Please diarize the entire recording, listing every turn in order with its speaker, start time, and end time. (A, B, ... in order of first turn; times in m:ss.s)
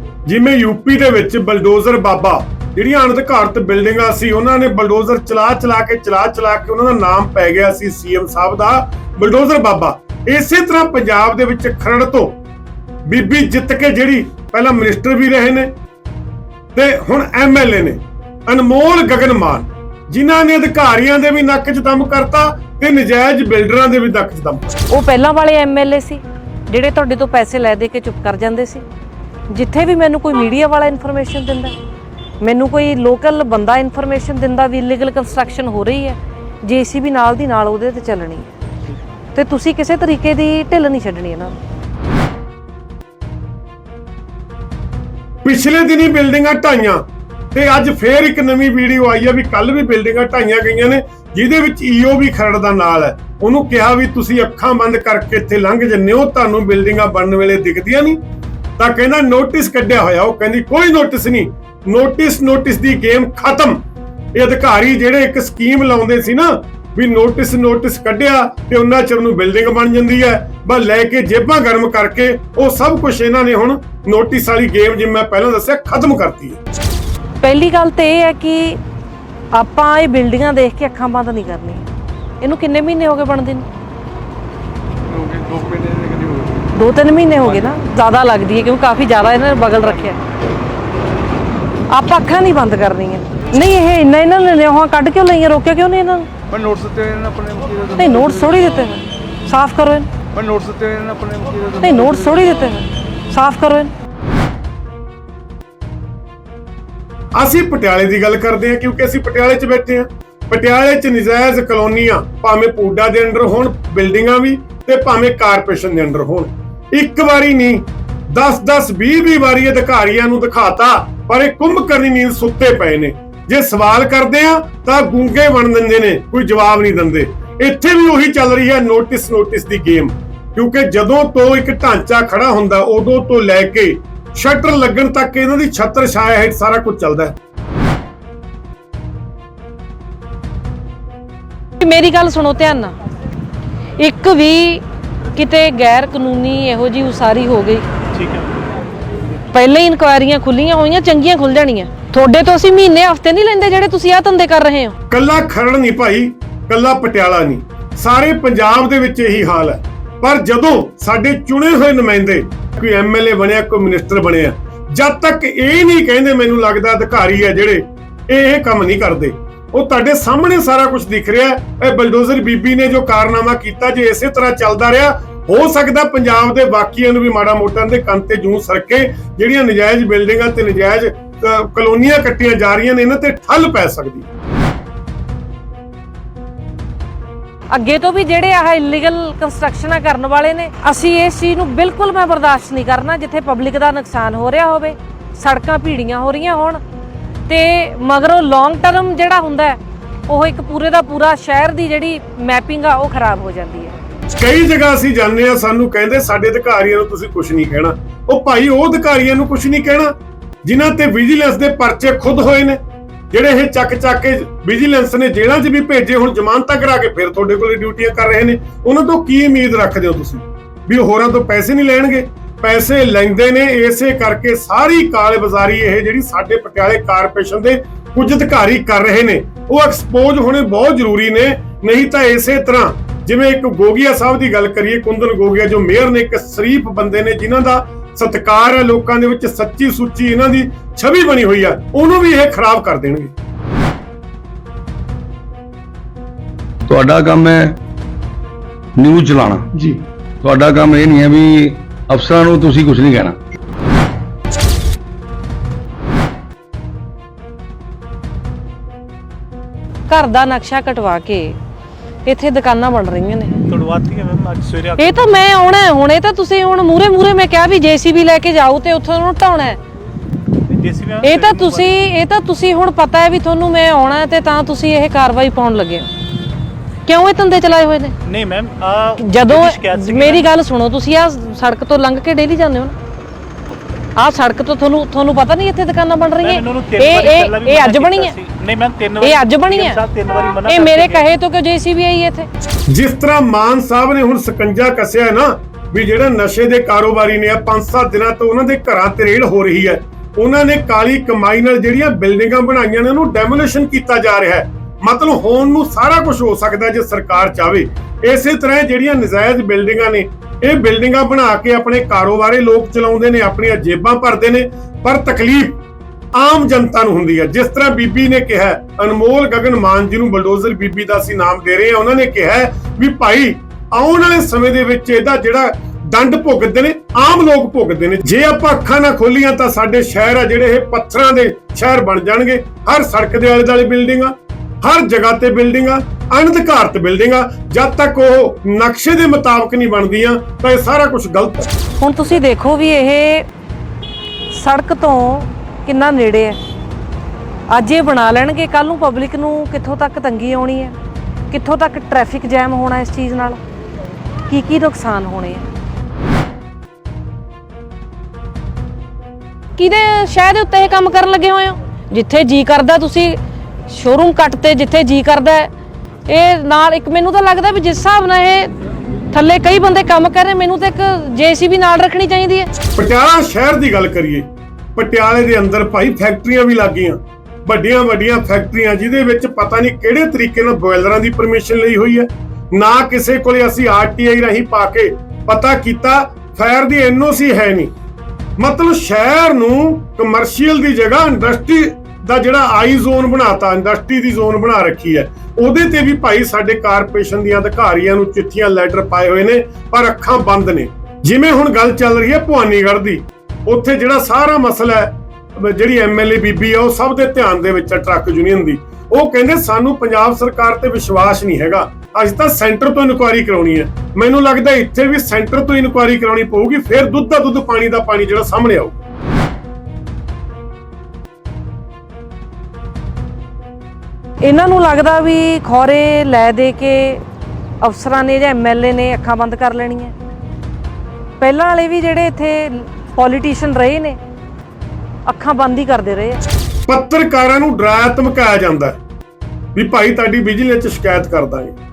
0:00.2-0:12.4 A
0:13.0-0:15.7 A
0:16.7-0:24.8 A
0:24.9-0:28.8 B
0:29.5-0:31.7 B
0:32.4-0:38.5 B
0:39.3-0:41.6 B
0:45.4-0:58.2 A
0:58.8-1:03.8 A
1:04.3-1:16.6 A
1:17.4-1:18.8 B
1:19.5-1:21.8 B
1:22.4-1:23.6 B
1:25.1-1:26.7 C
1:26.7-1:30.2 B
1:31.9-1:36.3 B
1:36.5-1:38.6 C
1:38.0-1:40.1 B
1:40.3-1:42.2 C
1:41.8-1:43.9 B
1:47.4-2:17.4 A
2:21.8-2:22.9 B
2:24.0-2:24.8 B
2:25.3-2:27.9 B
2:28.1-2:28.5 D
2:29.5-2:34.9 B
2:35.1-3:04.3 A
3:07.7-3:16.8 B
3:17.5-3:23.9 B
3:24.3-3:32.8 A
3:33.3-4:03.3 A
4:06.8-4:07.8 E
4:09.0-4:09.7 E
4:10.4-4:13.4 E
4:20.1-4:21.6 B
4:22.2-4:23.6 B
4:23.7-4:25.3 D
4:25.0-4:29.8 B
4:30.7-4:31.9 D
4:31.2-4:36.1 B
4:37.0-4:38.1 B
4:38.2-4:40.5 D
4:39.2-4:42.9 B
4:44.2-4:48.4 B
4:46.4-4:51.2 D
4:49.2-4:50.0 B
4:50.7-4:52.5 B
4:52.9-5:15.8 A
5:16.3-5:41.7 A
5:42.0-5:43.5 B
5:44.5-5:46.6 B
5:47.7-5:50.9 B
5:51.5-5:53.6 B
5:54.5-5:55.7 B
5:59.8-6:03.4 B
6:03.9-6:05.7 B
6:06.3-6:08.7 B
6:09.3-6:12.7 B
6:12.9-6:27.9 A
6:28.6-6:59.0 A
7:04.4-7:07.2 B
7:07.8-7:10.1 B
7:11.4-7:14.2 B
7:15.2-7:16.4 B
7:16.9-7:19.0 A
7:19.7-7:21.8 A